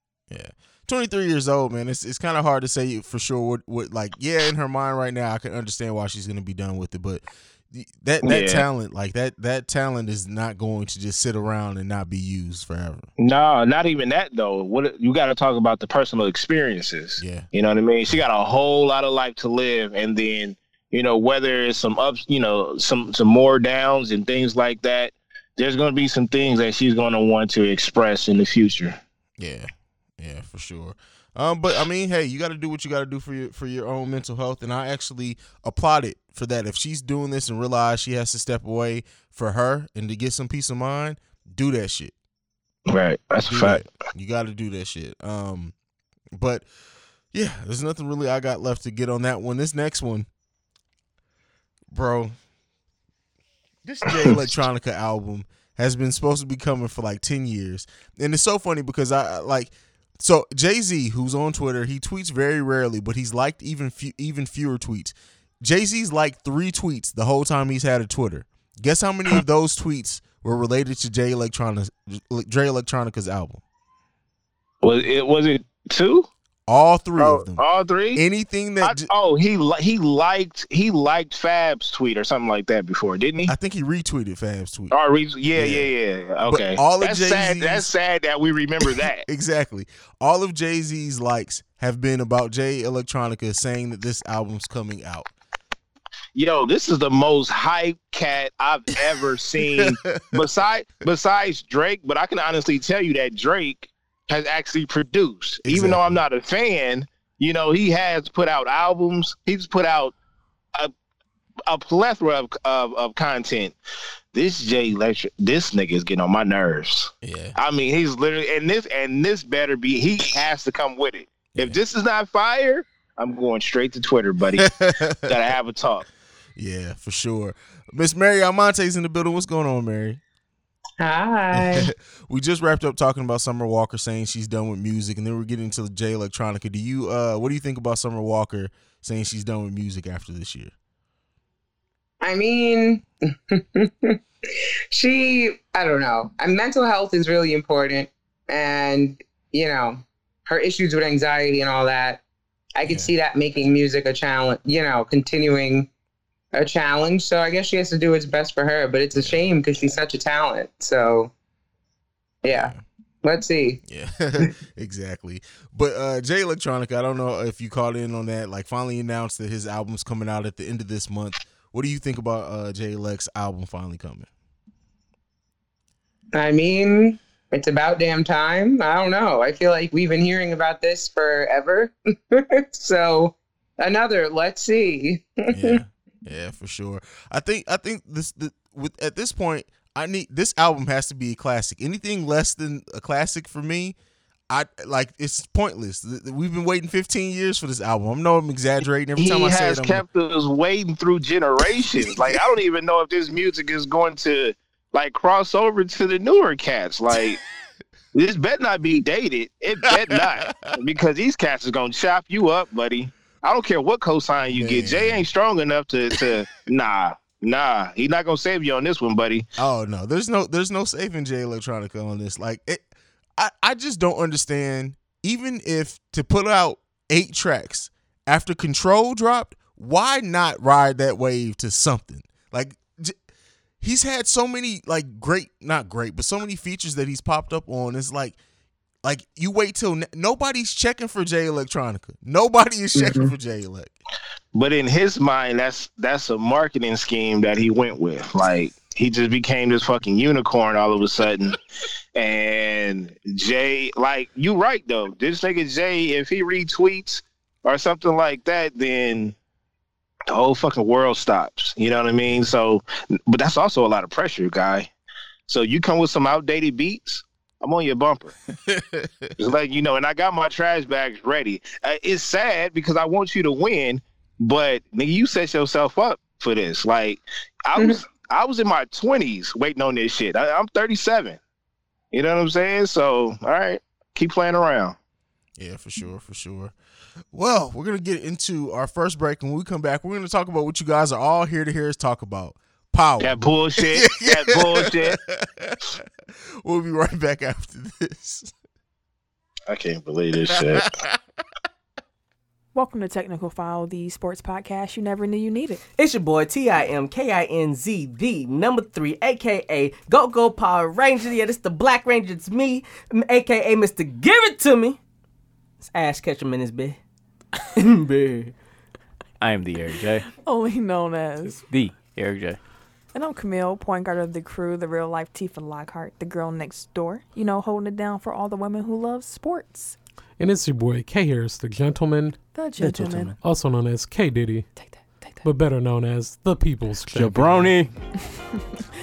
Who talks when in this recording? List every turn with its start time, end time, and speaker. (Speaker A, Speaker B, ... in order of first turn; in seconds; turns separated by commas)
Speaker A: 0.3-13.1, Speaker B: 8.2-8.6, Speaker B: 13.2-29.0, Speaker A: 17.2-17.5, Speaker A: 29.4-42.1, Speaker B: 42.9-43.8, Speaker A: 43.4-45.7, Speaker A: 46.3-46.6, Speaker A: 47.3-50.3, Speaker A: 51.9-52.3, Speaker A: 53.8-73.6, Speaker B: 74.8-76.3, Speaker A: 76.7-77.6, Speaker B: 77.2-78.2, Speaker A: 78.1-79.1, Speaker B: 78.8-83.5, Speaker A: 83.5-84.9, Speaker B: 84.9-89.2, Speaker A: 85.5-85.9, Speaker A: 86.4-87.9, Speaker A: 88.8-95.3, Speaker B: 96.3-110.1, Speaker A: 99.8-100.4, Speaker A: 105.6-106.2, Speaker B: 111.7-113.8, Speaker B: 114.3-124.7, Speaker A: 117.2-117.5, Speaker A: 121.5-121.8, Speaker A: 124.6-125.3, Speaker B: 125.2-126.0, Speaker A: 126.5-130.2, Speaker C: 131.0-131.9, Speaker A: 131.5-140.7, Speaker C: 142.2-144.2, Speaker C: 144.9-152.2, Speaker C: 152.8-155.9, Speaker A: 152.8-153.1, Speaker C: 156.5-161.3, Speaker C: 162.4-163.8, Speaker A: 162.5-162.8, Speaker A: 163.8-174.3, Speaker C: 176.3-185.8, Speaker A: 185.5-194.0, Speaker A: 194.5-200.0, Speaker B: 199.2-207.4, Speaker A: 202.1-202.4, Speaker B: 208.1-219.4, Speaker A: 214.5-215.2, Speaker A: 219.6-233.2, Speaker A: 233.8-238.4, Speaker A: 239.0-243.9, Speaker C: 242.9-243.3, Speaker B: 244.5-251.6, Speaker B: 252.2-259.4, Speaker B: 260.3-264.9, Speaker A: 262.2-262.5, Speaker B: 265.5-268.3, Speaker A: 268.7-269.3, Speaker B: 269.4-281.4, Speaker B: 282.1-284.9, Speaker A: 285.6-286.7, Speaker A: 287.3-296.0, Speaker B: 293.2-295.2, Speaker A: 296.6-298.5, Speaker B: 299.7-300.9, Speaker A: 300.5-301.2, Speaker D: 302.7-305.8, Speaker E: 305.9-315.0, Speaker E: 315.8-317.0, Speaker E: 317.8-318.5, Speaker F: 319.4-320.3, Speaker D: 320.4-321.6, Speaker F: 321.6-322.6, Speaker D: 323.1-329.9, Speaker G: 330.4-332.6, Speaker D: 332.5-333.4, Speaker F: 332.8-333.3, Speaker G: 333.4-334.7, Speaker D: 334.7-335.4, Speaker G: 335.4-337.8, Speaker F: 337.1-337.9